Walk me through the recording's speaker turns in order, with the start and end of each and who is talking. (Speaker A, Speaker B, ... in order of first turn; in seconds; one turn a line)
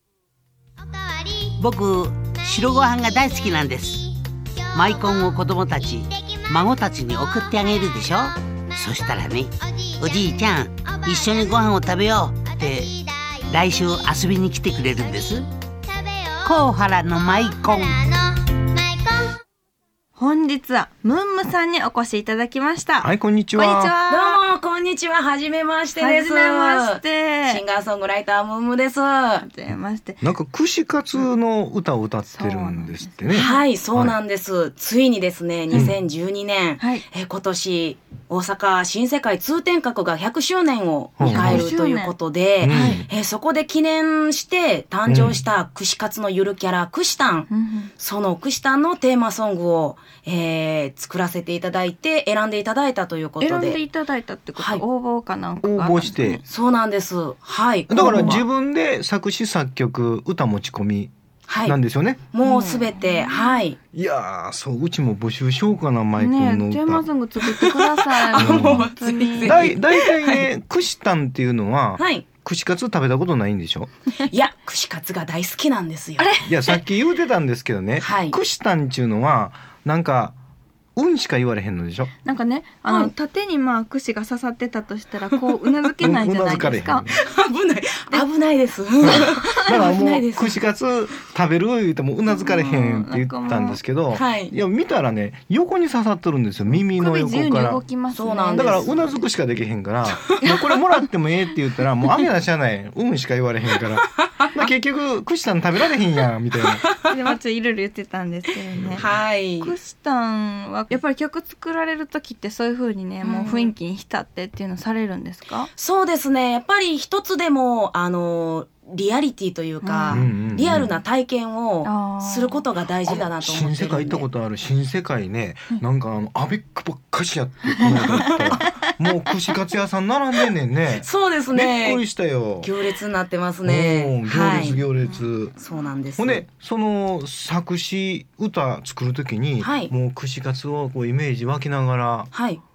Speaker A: 0.8-1.6
Speaker B: 1.6-4.0
Speaker A: 2.2-19.4
Speaker B: 4.7-12.9
Speaker B: 13.5-15.4
Speaker B: 16.4-18.0
Speaker C: 20.1-24.4
Speaker D: 23.0-23.9
Speaker E: 24.1-29.4
Speaker C: 25.9-27.6
Speaker C: 29.4-30.2
Speaker D: 30.2-34.1
Speaker C: 32.3-33.6
Speaker E: 33.3-53.8
Speaker D: 35.7-36.0
Speaker D: 41.2-41.7
Speaker C: 41.2-42.1
Speaker D: 42.6-43.1
Speaker D: 45.0-45.4
Speaker C: 47.5-47.9
Speaker C: 53.4-56.4
Speaker E: 54.6-54.8
Speaker D: 55.6-56.4
Speaker E: 56.5-58.4
Speaker D: 57.9-61.1
Speaker C: 58.0-58.4
Speaker E: 61.5-61.8
Speaker D: 61.6-62.2
Speaker E: 62.3-63.8
Speaker C: 62.4-63.5
Speaker D: 63.9-67.0
Speaker C: 66.2-69.7
Speaker E: 67.4-70.5
Speaker D: 68.3-68.9
Speaker D: 69.4-73.9
Speaker E: 72.0-72.2
Speaker E: 74.2-76.3
Speaker C: 76.2-76.8
Speaker D: 76.5-80.3
Speaker E: 78.0-78.4
Speaker D: 81.0-82.1
Speaker C: 82.2-87.1
Speaker E: 82.8-83.1
Speaker D: 86.0-87.2
Speaker E: 87.2-90.6
Speaker D: 89.0-97.8
Speaker C: 92.3-93.8
Speaker E: 94.1-94.5
Speaker C: 96.9-99.2
Speaker E: 98.1-99.0
Speaker D: 98.5-106.8
Speaker E: 106.7-107.0
Speaker C: 107.1-109.0
Speaker D: 108.7-109.0
Speaker E: 109.0-109.7
Speaker C: 109.6-115.7
Speaker E: 113.2-113.7
Speaker E: 115.7-124.3
Speaker C: 119.8-120.3
Speaker D: 120.1-120.9
Speaker C: 121.8-122.6
Speaker D: 123.0-132.7
Speaker C: 127.7-128.7
Speaker E: 127.9-128.2
Speaker E: 130.9-134.9
Speaker D: 133.6-135.5
Speaker E: 135.6-136.4
Speaker D: 136.2-142.3
Speaker E: 139.6-139.9
Speaker E: 142.3-142.6